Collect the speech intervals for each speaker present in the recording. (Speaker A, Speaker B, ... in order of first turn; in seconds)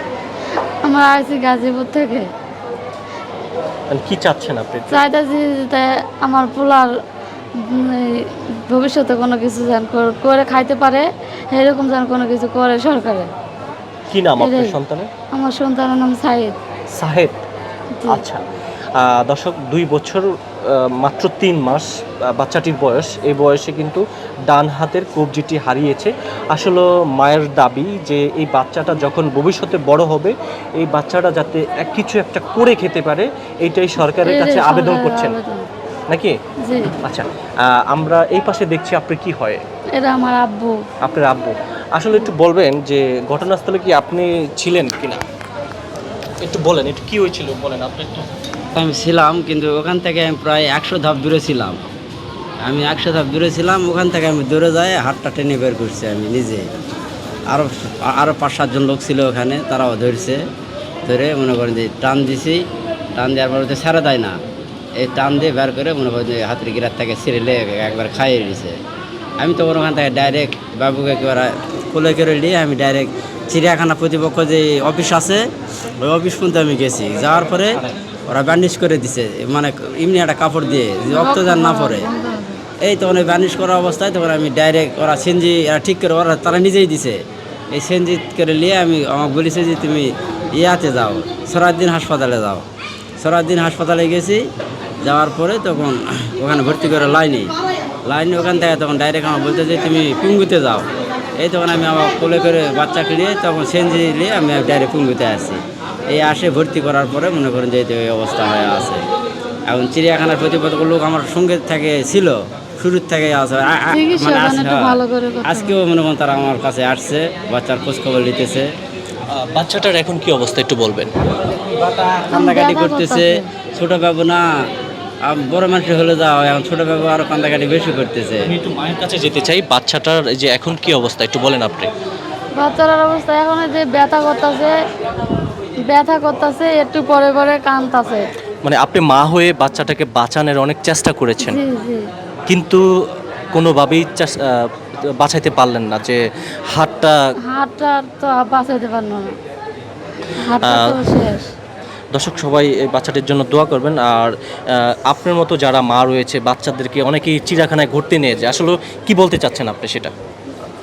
Speaker A: 0.8-2.3, 4.9-6.9, 7.6-13.3, 14.4-14.8, 15.3-16.6, 18.0-18.2, 34.2-35.7, 36.6-36.9, 40.0-40.8, 81.1-82.6, 113.9-115.8, 122.3-123.5, 132.6-134.8, 135.9-138.2, 141.4-142.1, 147.4-149.3, 150.4-151.5
Speaker B: 3.9-5.0, 14.1-15.1, 16.9-17.4, 18.1-18.4, 18.9-35.4, 36.1-36.4, 37.0-39.6, 41.0-45.2, 46.4-48.3, 119.3-121.1, 128.5-131.9, 138.6-141.6, 142.5-142.8, 143.5-146.2, 146.7-147.2, 150.6-151.1, 152.1-160.1
Speaker C: 48.8-51.8, 52.6-56.7, 57.5-60.4, 61.1-62.6, 63.2-64.4, 65.0-68.8, 69.4-75.4, 76.0-82.1, 82.8-87.2, 87.7-92.7, 93.2-94.5, 95.0-97.5, 98.0-109.0, 109.7-118.7, 121.3-124.4, 125.2-128.5